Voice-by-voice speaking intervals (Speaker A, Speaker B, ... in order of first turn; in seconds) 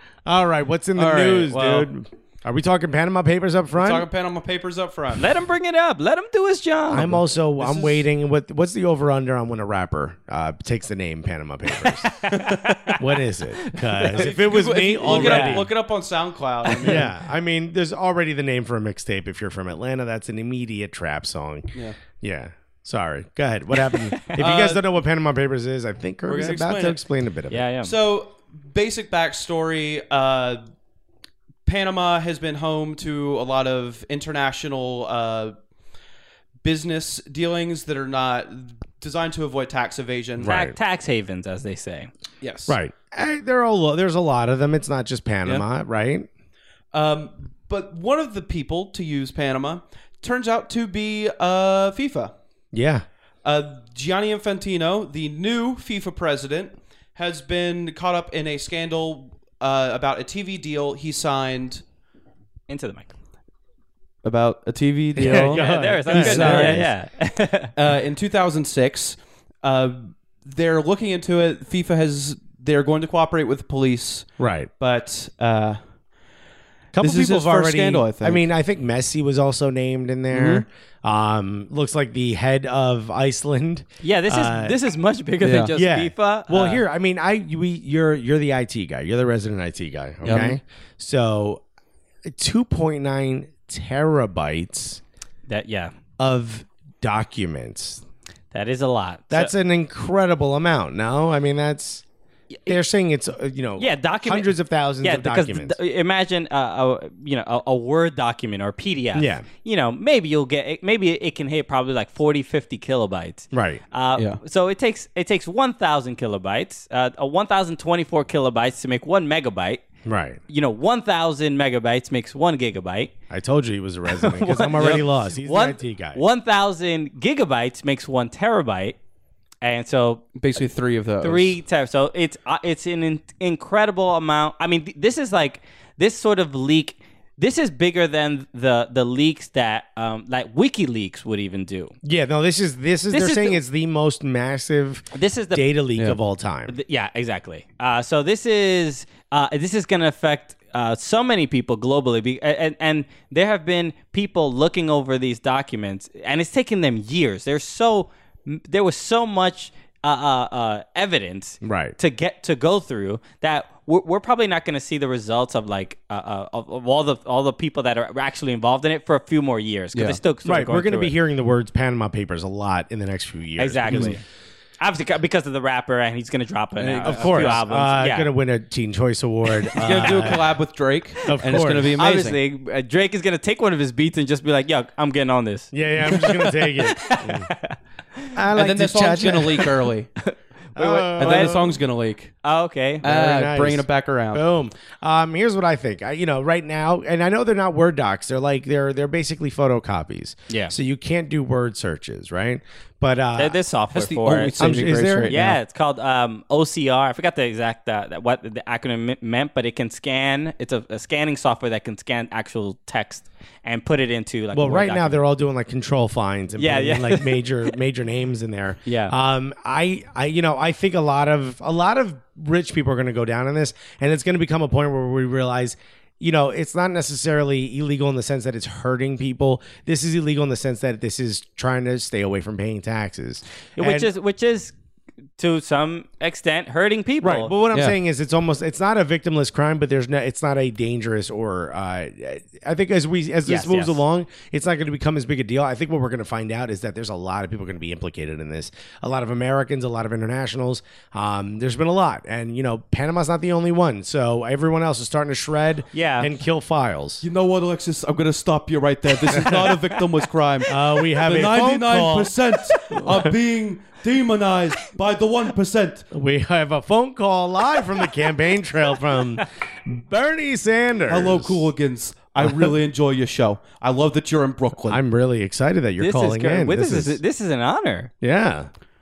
Speaker A: 0.2-4.1, 6.9-12.3, 12.9-15.7, 16.8-27.6, 40.4-40.8, 42.7-46.3, 52.7-53.0, 65.2-66.9, 74.4-74.7, 76.9-84.8, 85.7-91.6, 92.2-95.0, 96.2-98.0, 99.3-102.0, 102.7-105.8, 109.1-109.5, 113.5-113.8, 120.0-120.4, 123.3-126.2, 142.0-146.7, 161.6-162.0, 170.4-174.2, 177.0-180.5, 181.2-182.0, 185.7-187.5, 188.3-189.7, 190.8-191.8, 193.0-203.6, 204.6-205.6, 214.5-234.1, 237.2-257.2, 259.3-259.8, 260.7-263.3, 266.1-271.6, 272.4-272.7, 274.9-277.2, 278.2-278.7
Speaker B: 0.9-1.9, 3.8-5.3, 7.6-8.1, 12.3-12.7, 14.1-17.1, 24.3-24.9, 26.3-27.0, 27.8-30.6, 31.6-35.5, 36.6-40.5, 42.4-42.8, 46.9-52.3, 53.4-61.8, 64.2-66.9, 67.8-75.8, 77.0-78.4, 80.3-80.6, 85.4-85.7, 90.2-90.5, 124.8-125.0, 130.3-131.6, 173.9-174.2, 176.8-177.6, 179.8-182.4, 188.6-190.1, 191.2-192.3, 193.0-194.4, 203.9-205.4, 257.2-266.1, 271.1-275.0
Speaker C: 5.2-7.2, 12.2-13.0, 13.7-14.2, 15.1-15.6, 16.6-17.0, 27.5-27.9, 40.4-42.1, 62.7-63.1, 65.2-67.7, 84.0-86.8, 90.3-90.5, 95.5-95.9, 98.5-99.5, 102.5-102.8, 103.8-119.8, 120.5-123.1, 124.1-128.9, 129.6-130.3, 131.2-141.9, 143.1-143.6, 145.1-145.7, 146.7-171.1, 173.6-174.2, 174.8-178.3, 179.6-180.4, 182.0-187.8, 190.2-191.6, 192.4-193.0, 200.5-200.7, 203.3-215.2, 216.6-217.4, 218.8-219.1, 233.8-234.7, 235.4-237.5, 243.4-244.0, 255.9-256.3, 276.0-278.1